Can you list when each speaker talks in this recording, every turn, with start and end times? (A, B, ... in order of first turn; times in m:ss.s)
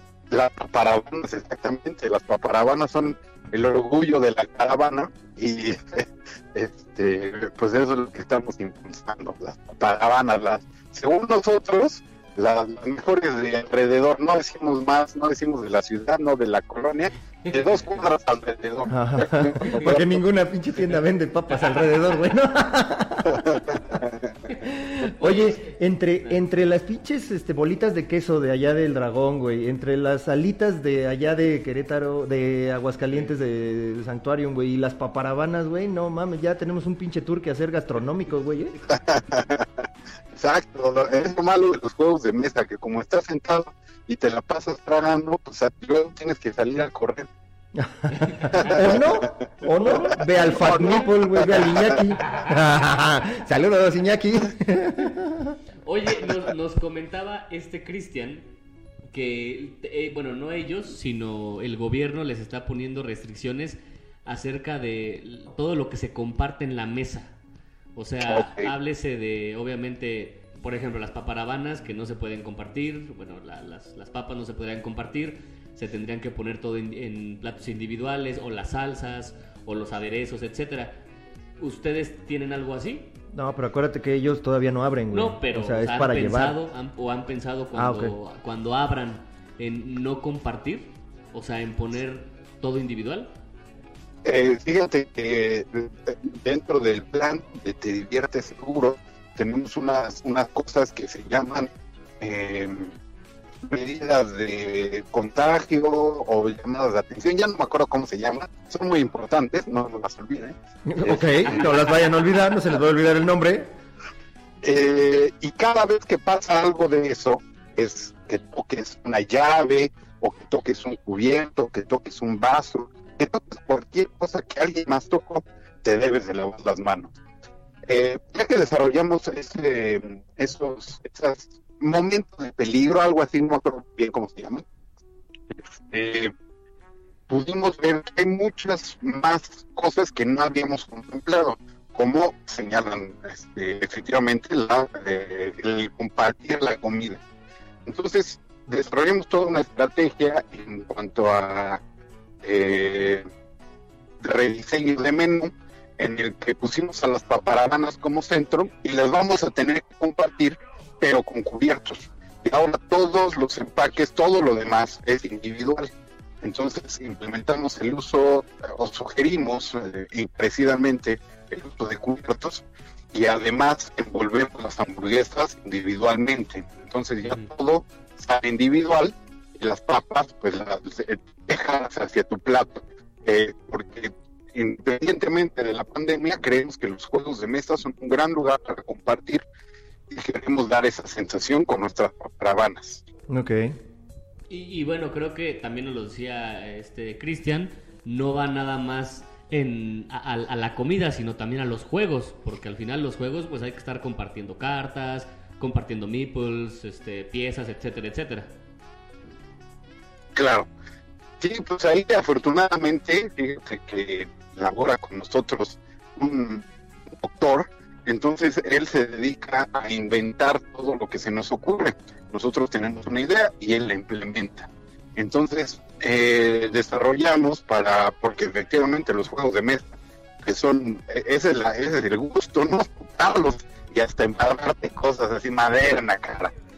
0:00.3-0:20.2 A
0:18.9-0:23.6 B
0:23.4-0:24.1 A
0:24.5-0:38.8 B
0:38.9-0:39.7 A
0:40.3-0:47.3 A
0:47.8-0:55.6 B
0:48.2-0:48.8 C
0:48.5-0:49.3 A
0:49.9-0:50.2 A
0:55.8-0:58.5 C
0:59.1-1:07.4 C
1:08.0-1:21.0 C
1:08.3-1:08.7 A
1:21.6-1:23.1 C
1:23.3-1:26.6 B
1:25.1-1:33.3 C
1:27.8-1:28.2 B
1:34.2-1:42.9 A
1:43.6-1:52.0 A
1:50.9-1:53.7 B
1:54.6-2:07.2 A
2:07.9-2:14.6 A
2:15.5-2:16.3 A
2:17.3-2:27.2 A
2:27.9-2:31.8 A
2:32.4-2:33.3 A
2:34.2-2:45.9 A
2:46.4-3:09.4 A
3:10.1-3:13.0 A
3:13.3-3:13.8 B
3:14.5-3:28.5 C
3:30.4-3:30.7 A
3:31.4-3:36.6 A
3:37.2-3:49.9 A
3:50.4-3:56.5 A